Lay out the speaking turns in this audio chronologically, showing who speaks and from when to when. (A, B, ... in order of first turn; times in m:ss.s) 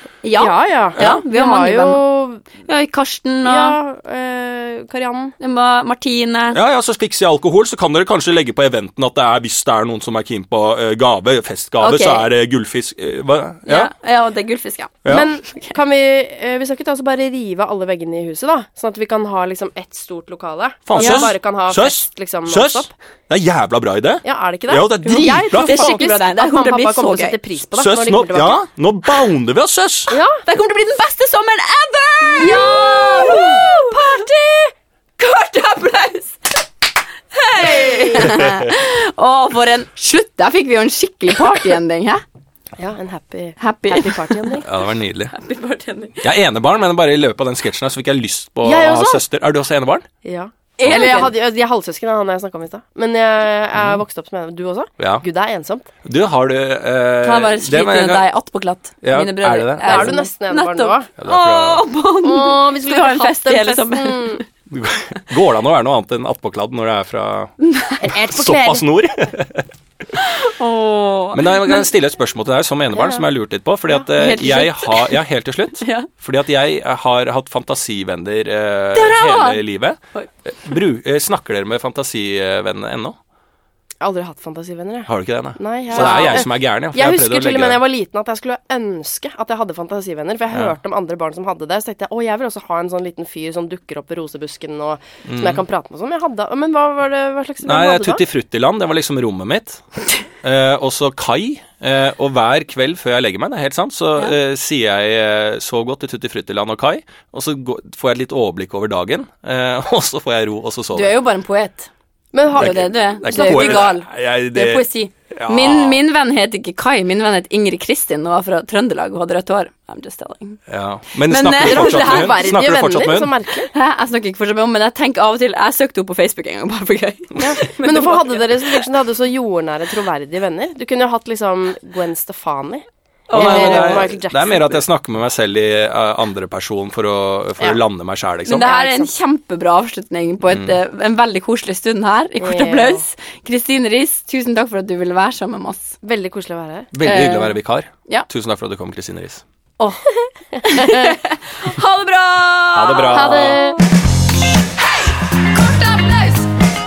0:00.2-0:02.0 A
0:00.4-0:02.4 B
0:02.6-0:03.8 A
0:03.4-0:05.4 B
0:05.4-0:06.6 A
0:06.5-0:13.9 C
0:11.8-0:12.2 A
0:13.7-0:15.7 A
0:15.1-0:22.9 B
0:20.9-0:26.0 C
0:21.0-0:21.3 A
0:24.2-0:28.6 B
0:25.0-0:27.4 A
0:27.8-0:30.2 C
0:30.1-0:30.4 B
0:30.4-0:34.0 A
0:32.3-0:34.7 B
0:35.2-0:36.4 A
0:37.3-0:42.2 A
0:37.6-0:38.2 B
0:38.2-0:38.5 C
0:42.8-0:44.7 B
0:43.6-0:44.6 A
0:44.6-0:45.3 C
0:45.3-0:46.2 A
0:46.2-0:50.1 C
0:48.6-0:49.2 B
0:50.2-0:55.9 B
0:50.8-0:51.3 A
0:50.9-0:51.2 C
0:55.0-0:55.2 C
0:56.0-0:58.3 C
0:57.2-1:04.4 A
0:59.0-1:00.2 C
0:59.8-1:01.1 B
1:01.2-1:01.9 C
1:02.2-1:04.4 B
1:04.7-1:09.7 C
1:07.6-1:08.1 A
1:08.0-1:08.8 B
1:10.2-1:11.9 A
1:11.3-1:23.2 C
1:13.0-1:13.3 B
1:14.1-1:15.2 A
1:15.8-1:16.1 A
1:18.9-1:19.6 A
1:20.2-1:20.7 A
1:24.0-1:38.2 B
1:25.1-1:27.8 C
1:26.0-1:26.5 A
1:35.3-1:35.6 C
1:37.7-1:39.8 C
1:40.4-1:51.2 C
1:50.9-1:51.9 A
1:52.3-1:53.9 B
1:52.5-2:00.6 A
1:52.6-1:56.0 C
2:00.7-2:03.3 C
2:01.2-2:02.4 A
2:01.6-2:03.7 B
2:03.7-2:08.9 A
2:07.4-2:14.8 B
2:13.3-2:14.1 A
2:13.3-2:18.7 C
2:18.5-2:26.0 A
2:18.5-2:19.1 B
2:22.4-2:23.0 B
2:26.0-2:26.9 B
2:26.9-2:29.4 C
2:27.0-2:28.3 A
2:29.8-2:33.8 A
2:30.6-2:31.2 B
2:32.7-2:33.6 C
2:33.1-2:33.8 B